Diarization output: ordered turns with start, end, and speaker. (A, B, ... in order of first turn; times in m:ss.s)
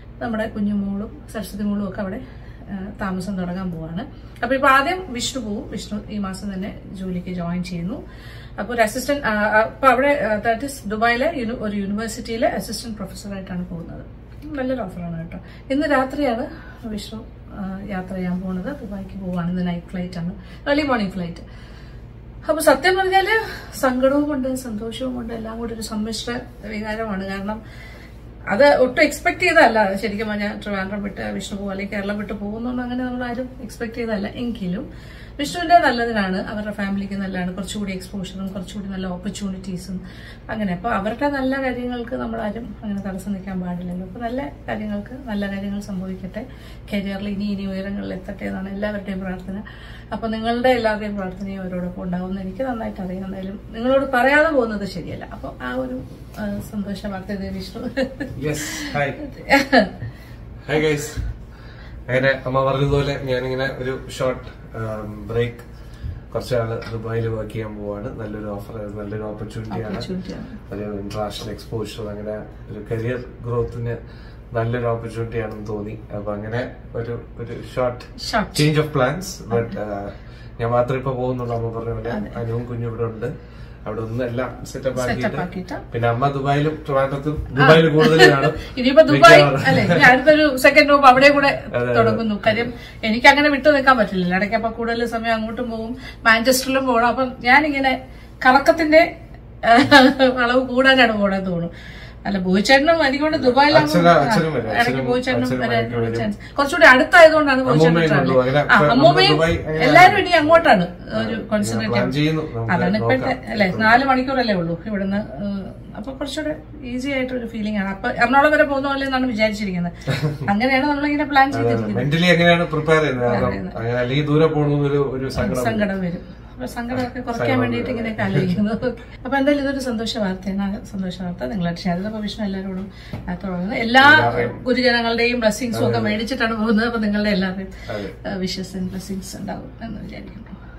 0:00.2-0:08.0 A
0:08.6-0:21.4 A
0:22.4-0:27.6 A
0:28.5-0:34.9 A
0:35.4-0:58.2 A
0:58.4-0:59.2 B
1:00.7-1:01.3 B
1:02.1-1:05.6 B
1:06.3-1:10.1 B
1:09.7-1:10.6 A
1:10.7-1:14.0 B
1:14.5-1:23.3 B
1:18.2-1:18.5 A
1:22.1-1:22.4 A
1:23.9-1:30.3 B
1:25.0-1:25.8 A
1:27.6-1:39.1 A
1:31.7-1:32.7 B
1:39.6-1:41.7 A
1:42.3-1:52.1 A
1:43.4-1:46.3 B
1:47.6-1:54.0 B
1:52.7-2:02.1 A
2:00.1-2:00.4 B
2:01.5-2:05.9 B
2:03.2-2:03.8 A
2:05.4-2:20.5 A
2:06.9-2:08.6 B
2:14.0-2:14.6 B
2:15.7-2:16.2 B
2:17.9-2:18.2 B